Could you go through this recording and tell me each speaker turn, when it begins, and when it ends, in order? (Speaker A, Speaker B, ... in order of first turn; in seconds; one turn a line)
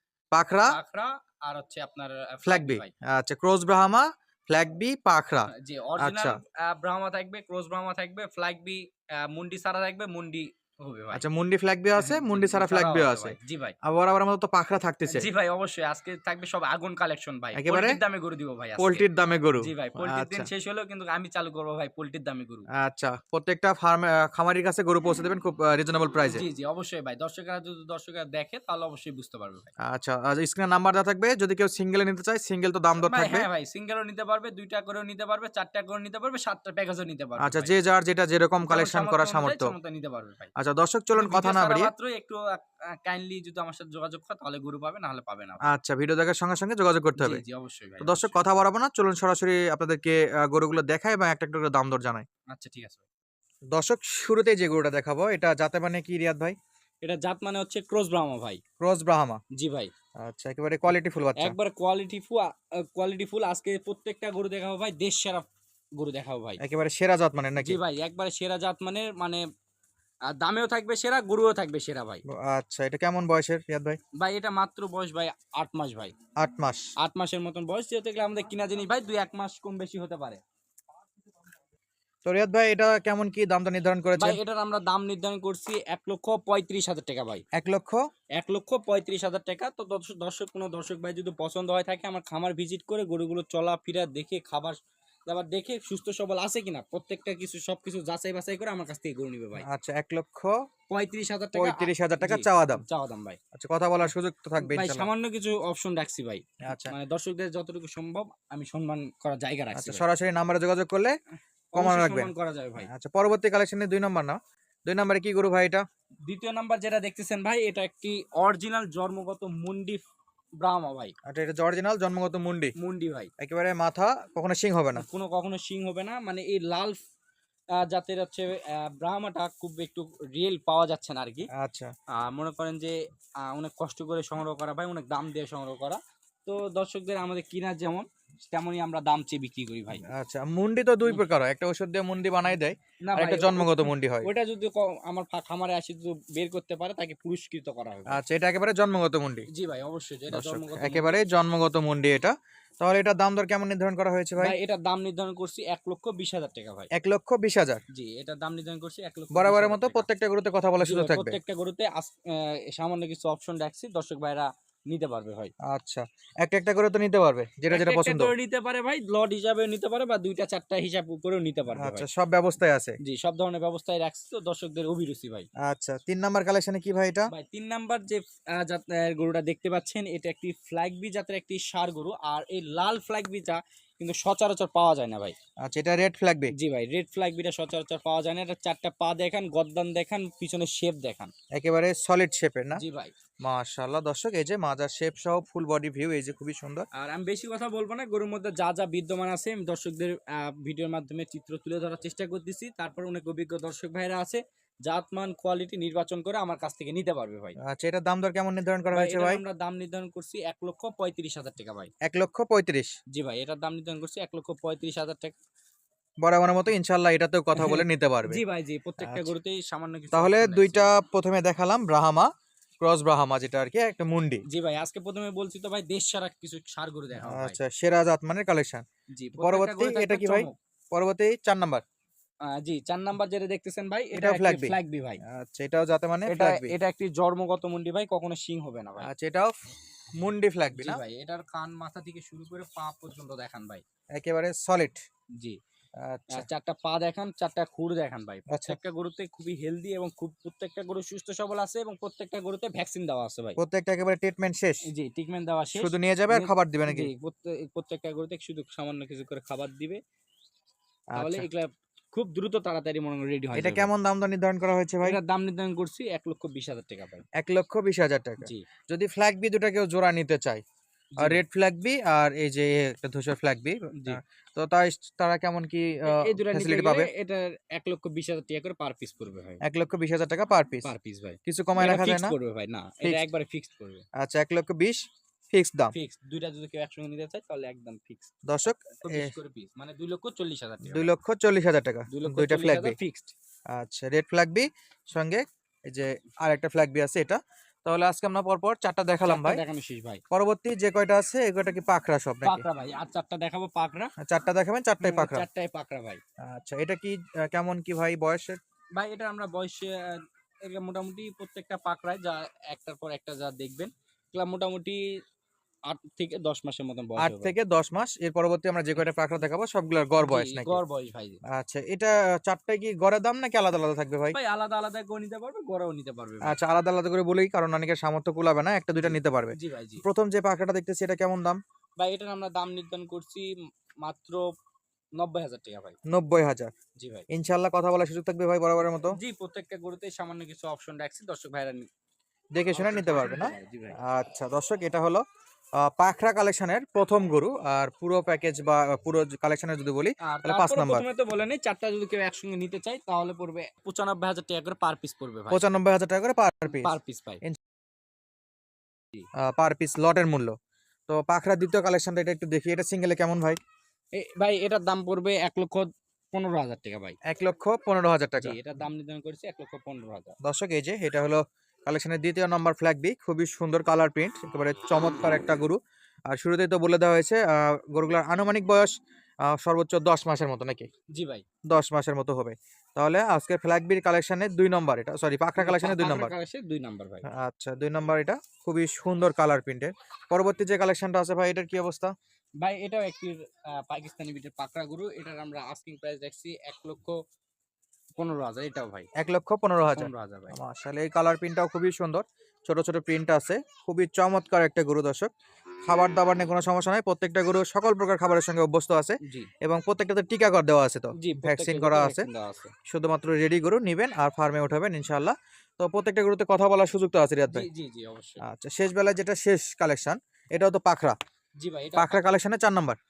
Speaker A: 0.3-0.8
Speaker B: 0.7-2.9
Speaker A: 2.5-6.4
Speaker B: 5.5-11.2
Speaker A: 11.1-15.3
Speaker B: 12.0-13.8
Speaker B: 15.1-19.1
Speaker A: 17.5-18.0
Speaker A: 18.8-20.5
Speaker B: 19.6-22.7
Speaker A: 22.8-26.4
Speaker B: 26.3-29.7
Speaker A: 29.9-33.5
Speaker B: 33.0-37.7
Speaker A: 37.4-39.7
Speaker B: 38.6-40.5
Speaker A: 40.5-41.9
Speaker B: 41.2-45.7
Speaker A: 45.7-47.4
Speaker B: 47.2-48.4
Speaker A: 48.0-52.2
Speaker B: 52.5-53.0
Speaker A: 53.7-56.6
Speaker B: 57.0-58.6
Speaker A: 58.8-59.4
Speaker B: 59.5-59.9
Speaker A: 60.2-61.5
Speaker B: 61.4-66.6
Speaker A: 66.6-67.8
Speaker B: 67.6-69.4
Speaker B: 70.3-72.2
Speaker A: 72.4-74.0
Speaker B: 74.2-76.1
Speaker A: 76.4-76.9
Speaker B: 77.0-80.4
Speaker A: 82.2-84.4
Speaker B: 84.2-87.4
Speaker A: 87.5-88.0
Speaker B: 88.3-94.8
Speaker B: 95.3-99.6
Speaker A: 99.6-100.5
Speaker B: 100.9-103.4
Speaker A: 101.5-102.8
Speaker A: 103.5-105.1
Speaker B: 104.6-110.0
Speaker A: 106.7-106.9
Speaker A: 109.8-111.1
Speaker B: 111.7-112.9
Speaker A: 111.8-115.8
Speaker B: 116.2-120.0
Speaker B: 120.6-121.1
Speaker A: 121.3-122.7
Speaker B: 122.8-123.3
Speaker A: 123.4-125.1
Speaker B: 124.9-127.0
Speaker B: 127.8-131.5
Speaker A: 131.6-131.9
Speaker B: 132.1-140.0
Speaker A: 140.1-144.3
Speaker B: 143.0-148.2
Speaker A: 148.1-149.5
Speaker B: 149.5-151.2
Speaker A: 150.3-154.5
Speaker B: 154.4-156.9
Speaker A: 156.9-157.8
Speaker B: 157.9-160.1
Speaker A: 159.3-161.4
Speaker B: 160.8-165.5
Speaker A: 165.7-168.3
Speaker B: 167.7-172.1
Speaker A: 171.8-172.9
Speaker B: 173.0-175.5
Speaker A: 175.6-177.3
Speaker B: 177.3-185.3
Speaker A: 185.6-186.5
Speaker B: 186.5-191.3
Speaker A: 191.5-192.8
Speaker B: 192.8-193.1
Speaker A: 193.4-196.8
Speaker B: 197.0-207.5
Speaker A: 207.7-209.4
Speaker B: 208.9-211.9
Speaker A: 212.0-212.9
Speaker B: 213.1-215.4
Speaker A: 216.2-218.4
Speaker B: 217.5-221.0
Speaker A: 219.0-219.3
Speaker A: 220.1-222.3
Speaker A: 222.8-224.4
Speaker B: 224.5-227.6
Speaker A: 227.2-228.8
Speaker B: 229.1-230.5
Speaker A: 229.4-231.8
Speaker B: 232.5-235.2
Speaker A: 234.1-234.8
Speaker A: 235.3-236.8
Speaker B: 236.3-239.1
Speaker A: 239.0-239.5
Speaker A: 240.2-241.0
Speaker B: 240.7-243.8
Speaker A: 244.1-245.0
Speaker A: 246.0-246.4
Speaker B: 246.3-253.6
Speaker A: 248.5-248.8
Speaker A: 253.6-254.8
Speaker B: 254.9-260.0
Speaker A: 255.8-257.1
Speaker A: 261.1-261.4
Speaker B: 261.1-263.9
Speaker A: 263.5-265.2
Speaker B: 265.0-267.2
Speaker A: 267.4-270.6
Speaker B: 268.4-268.7
Speaker A: 271.2-277.1
Speaker B: 276.1-279.6
Speaker A: 279.6-280.9
Speaker B: 280.8-284.1
Speaker A: 281.4-282.3
Speaker A: 284.2-285.9
Speaker B: 285.9-291.1
Speaker A: 288.5-289.3
Speaker A: 290.9-293.0
Speaker B: 292.1-293.3
Speaker A: 293.7-299.6
Speaker B: 299.2-300.2
Speaker A: 300.3-302.6
Speaker B: 302.4-304.1
Speaker A: 304.2-305.4
Speaker B: 305.0-306.2
Speaker A: 306.4-308.6
Speaker B: 308.9-315.0
Speaker B: 315.9-317.5
Speaker A: 317.2-320.8
Speaker B: 320.2-321.4
Speaker A: 321.5-324.4
Speaker B: 324.3-326.6
Speaker A: 326.4-331.6
Speaker B: 329.0-330.0
Speaker B: 332.0-333.5
Speaker B: 334.0-334.5
Speaker B: 335.2-336.0
Speaker A: 336.1-336.7
Speaker B: 337.0-337.3
Speaker A: 337.3-339.2
Speaker B: 339.1-341.9
Speaker A: 342.6-345.2
Speaker B: 342.7-344.0
Speaker A: 345.8-351.1
Speaker B: 350.2-355.8
Speaker A: 355.5-357.6
Speaker B: 356.7-357.4
Speaker A: 359.4-360.6
Speaker A: 361.1-363.6
Speaker B: 364.1-367.1
Speaker A: 367.3-368.6
Speaker B: 368.4-370.3
Speaker A: 370.4-375.8
Speaker A: 376.3-378.9
Speaker A: 379.5-380.9
Speaker B: 381.1-381.4
Speaker A: 381.7-386.3
Speaker B: 385.6-387.2
Speaker A: 387.3-392.1
Speaker B: 392.6-397.2
Speaker B: 398.2-399.1
Speaker A: 399.2-405.3
Speaker B: 399.9-400.6
Speaker A: 405.8-412.3
Speaker B: 409.2-409.5
Speaker B: 411.2-412.7
Speaker A: 412.9-417.7
Speaker B: 417.5-418.4
Speaker A: 418.4-421.1
Speaker B: 421.6-422.3
Speaker A: 422.0-423.0